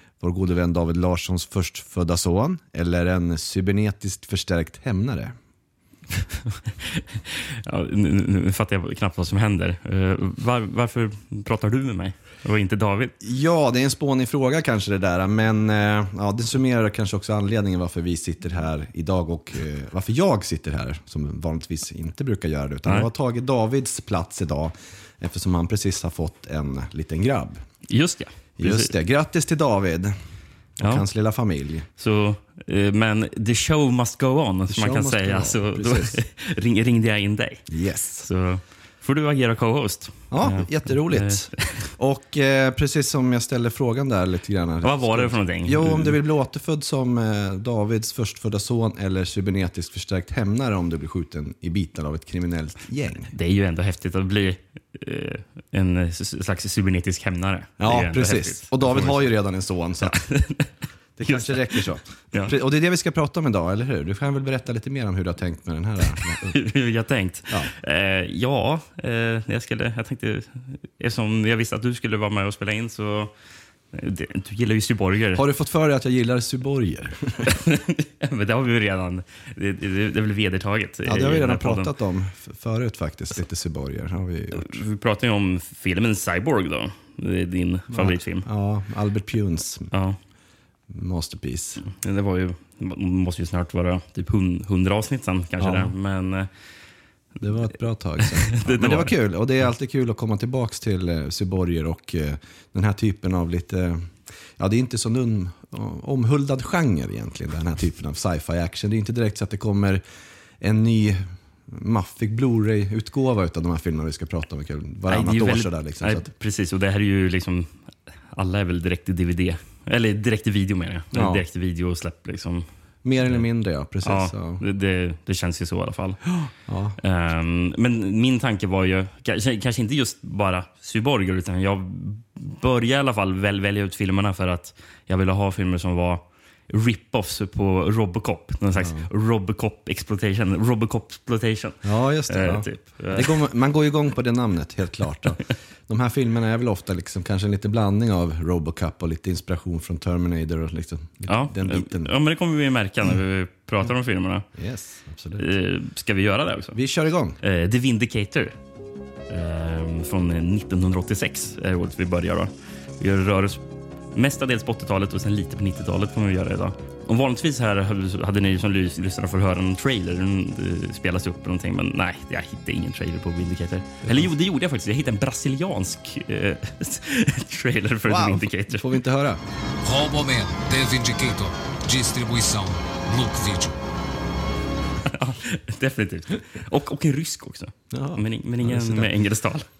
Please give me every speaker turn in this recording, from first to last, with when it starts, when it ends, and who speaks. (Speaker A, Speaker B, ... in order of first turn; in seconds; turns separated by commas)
Speaker A: 0.2-5.3, Speaker B: 6.2-13.1, Speaker A: 13.2-27.6, Speaker B: 27.9-28.9, Speaker A: 28.6-30.1, Speaker A: 30.8-31.9, Speaker B: 32.0-37.6, Speaker A: 34.7-36.2, Speaker A: 37.7-38.3, Speaker B: 38.2-41.9, Speaker A: 40.3-53.3, Speaker B: 44.8-46.2, Speaker B: 53.3-59.3, Speaker A: 57.8-60.2, Speaker B: 60.0-62.5, Speaker A: 61.2-66.5, Speaker B: 66.2-73.3, Speaker B: 73.9-75.4, Speaker A: 75.3-77.6, Speaker B: 77.5-81.9, Speaker A: 81.0-84.8, Speaker B: 84.5-88.5, Speaker A: 87.9-89.9, Speaker B: 89.9-90.2, Speaker A: 90.9-91.8, Speaker B: 91.8-96.5, Speaker A: 95.6-95.9, Speaker A: 97.4-110.0, Speaker B: 98.2-99.2, Speaker A: 110.6-116.2, Speaker B: 115.1-122.6, Speaker A: 121.1-121.4, Speaker A: 123.0-124.6, Speaker B: 124.0-126.2, Speaker A: 126.3-127.0, Speaker B: 127.0-143.4, Speaker A: 138.7-139.1, Speaker A: 141.8-152.1, Speaker B: 151.3-154.4, Speaker A: 154.5-155.4, Speaker B: 155.4-156.8, Speaker A: 156.7-157.4, Speaker B: 157.4-158.5, Speaker B: 159.3-178.9, Speaker A: 178.0-179.4, Speaker C: 179.8-183.7, Speaker B: 185.1-189.7, Speaker A: 187.9-189.1